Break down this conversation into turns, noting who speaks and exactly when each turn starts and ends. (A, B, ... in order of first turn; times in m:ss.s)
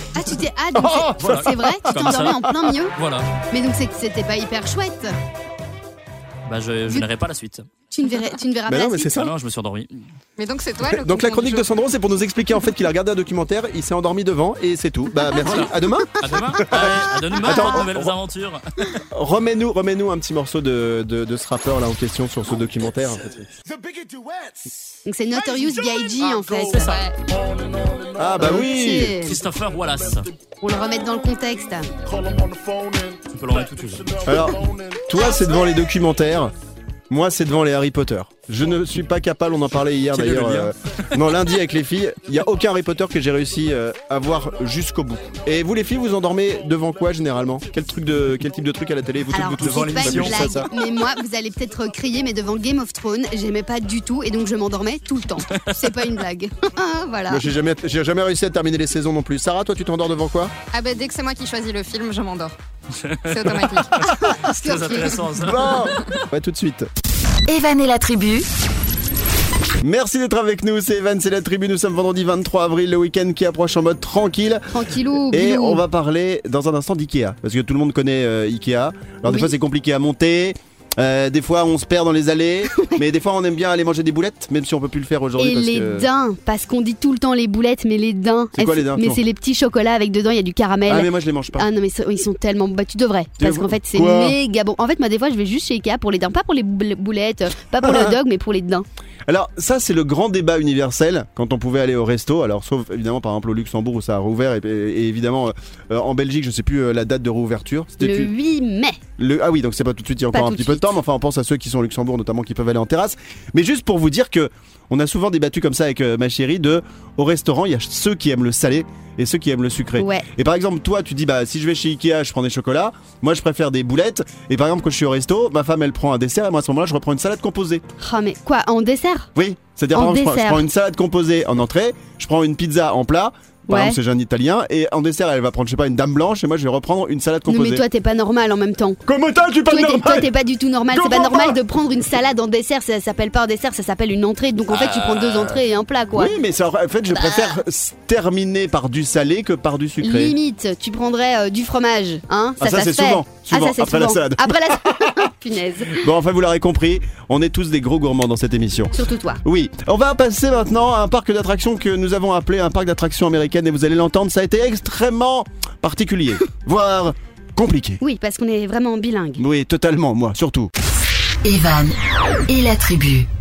0:00.1-0:02.9 A
0:00.7-0:02.5 B
0:01.2-0:02.4 C
0:03.0-0:03.3 C
0:03.5-0:05.1 A
0:06.4-0:07.7 C
0:07.9-0:09.1 A
0:08.7-0:09.3 B
0:09.1-0:10.0 C
0:10.4-0:11.6 D
0:10.9-0:18.1 B
0:15.4-0:18.6 C
0:19.1-0:23.4 B
0:25.0-0:26.9 A
0:26.6-0:28.0 C
0:26.8-0:27.1 D
0:28.1-0:29.2 B
0:28.4-0:29.4 A
0:29.2-0:30.3 C
0:30.6-0:31.9 A
0:33.3-0:34.4 C
0:34.2-0:36.5 B
0:37.1-0:50.7 B
0:40.1-0:40.7 C
0:49.3-0:57.4 A
0:49.6-0:50.6 C
0:57.3-1:00.5 B
1:00.7-1:02.5 D
1:03.0-1:06.0 C
1:03.3-1:04.1 D
1:04.0-1:05.2 A
1:05.4-1:06.9 B
1:07.5-1:08.5 E
1:09.8-1:14.7 B
1:14.7-1:15.8 A
1:15.3-1:26.1 B
1:19.2-1:19.5 A
1:22.7-1:23.0 A
1:25.4-1:38.8 A
1:28.5-1:29.2 B
1:30.9-1:31.7 B
1:33.4-1:34.4 B
1:37.8-1:38.2 B
1:39.2-1:48.3 B
1:48.0-1:49.0 A
1:49.2-2:07.8 B
1:50.3-1:50.9 A
2:00.0-2:00.2 A
2:08.0-2:09.3 A
2:09.3-2:17.8 B
2:09.9-2:10.6 A
2:13.7-2:14.0 A
2:17.5-2:19.0 A
2:19.0-2:20.3 B
2:19.7-2:26.3 A
2:20.9-2:21.6 B
2:24.7-2:25.6 C
2:26.1-2:30.4 B
2:27.1-2:27.6 A
2:30.0-2:36.0 A
2:32.6-2:35.3 B
2:35.9-2:48.0 B
2:38.9-2:39.4 A
2:48.0-2:49.4 A
2:49.4-2:50.7 B
2:51.4-2:53.3 E